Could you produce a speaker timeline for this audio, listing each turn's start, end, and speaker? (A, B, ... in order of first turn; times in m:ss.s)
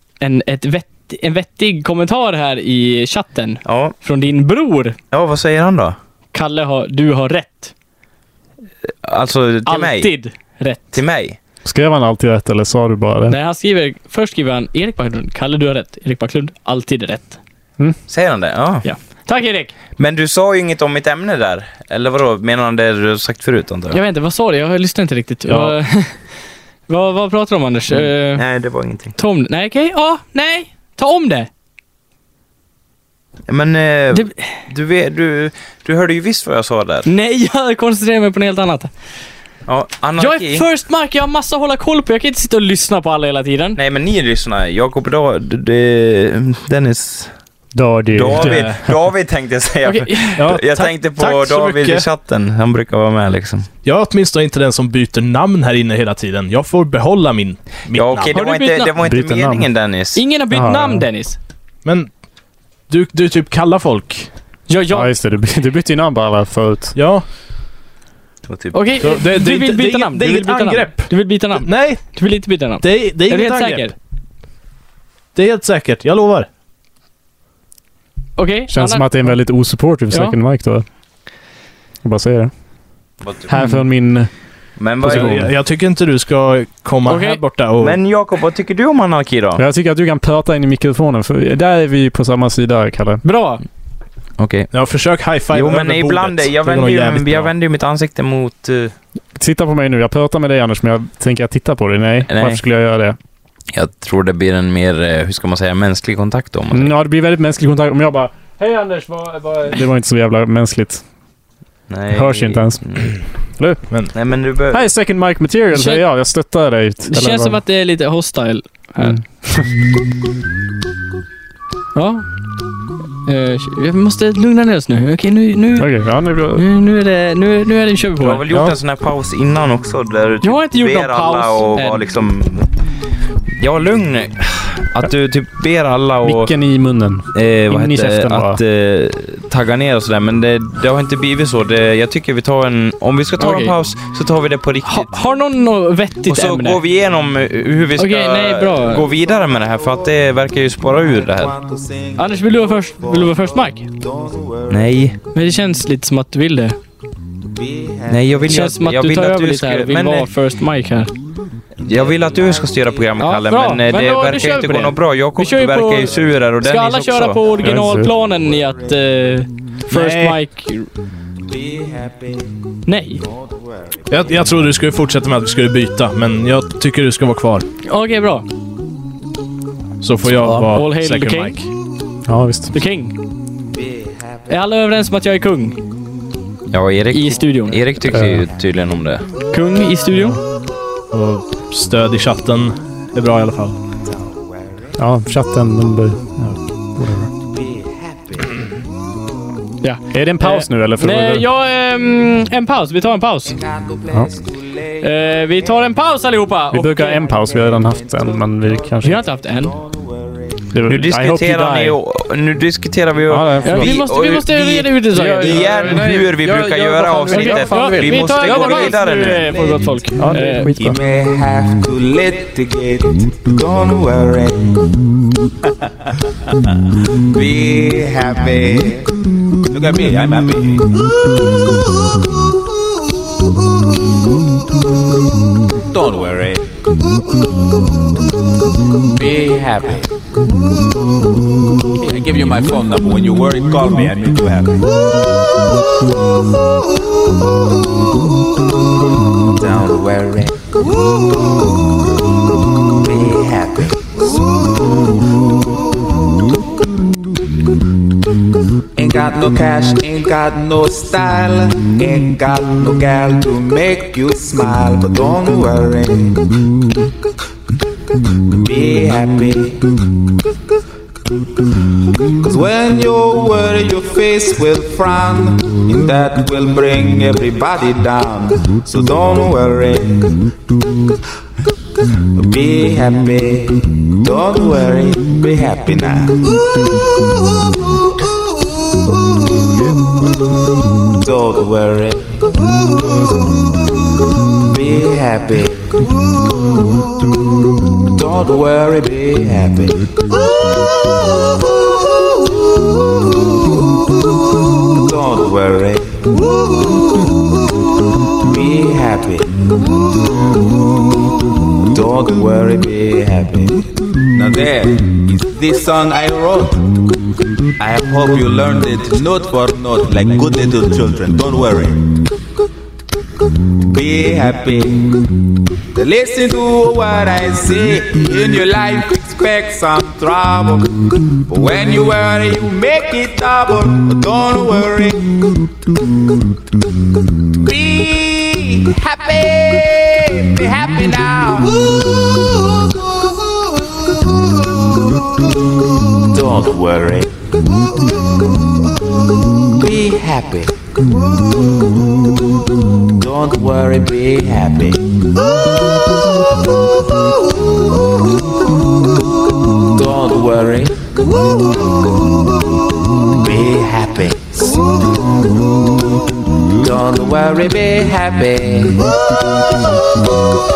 0:00.2-0:05.0 A
0:03.6-0:03.9 B
0:05.1-0:06.0 B
0:06.3-0:07.7 A
0:09.0-0:10.1 B
0:09.6-0:11.0 A
0:10.9-0:11.4 B
0:11.6-0:13.4 C
0:13.3-0:17.4 A
0:18.1-0:18.8 B
0:18.8-0:19.7 A
0:20.0-0:24.0 B
0:23.9-0:26.2 A
0:25.4-0:25.8 D
0:26.9-0:28.4 A
0:28.3-0:29.1 B
0:29.2-0:31.5 A
0:33.5-0:37.0 B
0:34.1-0:34.4 A
0:37.0-0:38.9 A
0:39.7-0:40.6 B
0:40.2-0:43.8 A
0:43.8-0:47.3 B
0:47.7-0:48.9 C
0:48.2-0:53.7 B
0:48.2-0:48.8 D
0:49.8-0:50.4 A
0:50.4-0:52.1 D
0:53.8-0:58.3 D
0:57.9-1:00.2 B
0:58.3-0:58.9 A
0:59.0-0:59.7 C
1:00.1-1:01.4 A
1:00.5-1:01.0 C
1:01.8-1:02.1 D
1:02.9-1:04.3 D
1:04.7-1:05.1 A
1:04.9-1:07.0 C
1:06.9-1:07.2 D
1:08.5-1:08.8 B
1:08.7-1:13.9 A
1:09.0-1:13.9 D
1:15.3-1:16.5 D
1:18.4-1:19.4 A
1:18.7-1:20.8 C
1:20.1-1:20.4 A
1:22.0-1:22.5 C
1:23.2-1:23.5 B
1:23.4-1:24.3 C
1:24.8-1:25.4 B
1:24.9-1:25.5 C
1:25.0-1:28.0 D
1:27.1-1:27.4 A
1:27.8-1:29.6 B
1:29.6-1:33.2 C
1:33.2-1:33.6 A
1:34.4-1:34.7 B
1:34.7-1:37.5 D
1:35.5-1:38.9 B
1:39.3-1:43.2 C
1:42.3-1:42.6 B
1:43.7-1:46.9 B
1:46.7-1:51.0 C
1:51.9-1:53.2 B
1:52.1-1:57.6 C
1:54.1-1:54.8 B
1:55.7-1:56.0 A
1:57.1-1:59.2 A
1:59.0-1:59.7 C
2:01.9-2:02.3 A
2:03.2-2:08.4 A
2:05.8-2:06.6 C
2:08.2-2:12.7 B
2:08.5-2:08.8 D
2:10.4-2:12.0 A
2:13.6-2:16.5 B
2:16.2-2:18.6 C
2:17.3-2:25.1 B
2:23.4-2:23.7 A
2:24.8-2:26.8 A
2:26.3-2:31.5 B
2:28.0-2:29.1 A
2:29.1-2:30.0 E
2:30.9-2:34.8 E
2:32.2-2:33.9 A
2:34.7-2:35.2 B
2:35.3-2:36.8 A
2:37.5-2:38.4 E
2:38.1-2:40.3 B
2:38.5-2:41.1 A
2:41.8-2:43.1 E
2:41.8-2:47.5 B
2:43.2-2:50.9 A
2:47.4-2:48.9 E
2:47.6-2:48.1 C
2:49.9-2:50.4 D
2:51.5-2:52.5 E
2:52.8-2:53.2 A
2:53.2-2:54.3 E
2:54.1-2:57.6 D
2:57.8-2:58.4 A
3:00.0-3:01.7 D
3:00.4-3:00.7 C
3:00.7-3:01.6 A
3:02.2-3:02.7 C
3:02.7-3:03.2 A
3:04.5-3:05.8 A
3:06.7-3:09.2 B
3:07.1-3:07.8 A
3:08.1-3:08.5 C
3:09.5-3:10.4 A
3:11.1-3:13.8 D
3:15.0-3:17.3 C
3:17.5-3:18.6 E
3:19.8-3:23.6 A
3:20.1-3:21.4 C
3:23.5-3:25.6 E
3:25.0-3:27.2 A
3:26.7-3:29.2 C
3:27.4-3:28.4 E
3:29.0-3:29.7 A
3:29.2-3:30.5 E
3:30.7-3:32.0 C
3:30.9-3:39.5 B
3:33.3-3:34.0 C
3:33.6-3:36.0 A
3:35.1-3:38.9 C
3:37.3-3:40.7 A
3:39.1-3:44.7 E
3:40.2-3:41.0 C
3:47.3-3:49.1 E
3:49.6-3:50.9 E
3:55.9-3:56.6 E
3:59.1-4:00.1 E
4:02.0-4:04.9 E
4:09.5-4:10.6 E
4:13.0-4:14.2 E
4:19.0-4:26.5 E
4:28.6-4:29.9 E
4:32.4-4:40.4 E
4:42.4-4:46.4 E
4:51.2-4:52.2 E
4:54.6-4:55.9 E
4:58.1-5:00.1 E
5:04.9-5:06.2 E
5:08.4-5:09.6 E
5:11.9-5:16.8 E
5:17.8-5:22.0 E
5:23.8-5:25.2 E
5:25.9-5:30.9 E
5:31.5-5:35.5 E
5:37.6-5:42.0 E
5:46.3-5:47.3 E
5:49.7-5:50.7 E
5:53.2-5:55.1 E
5:59.9-6:01.1 E
6:03.3-6:04.7 E
6:06.8-6:09.1 E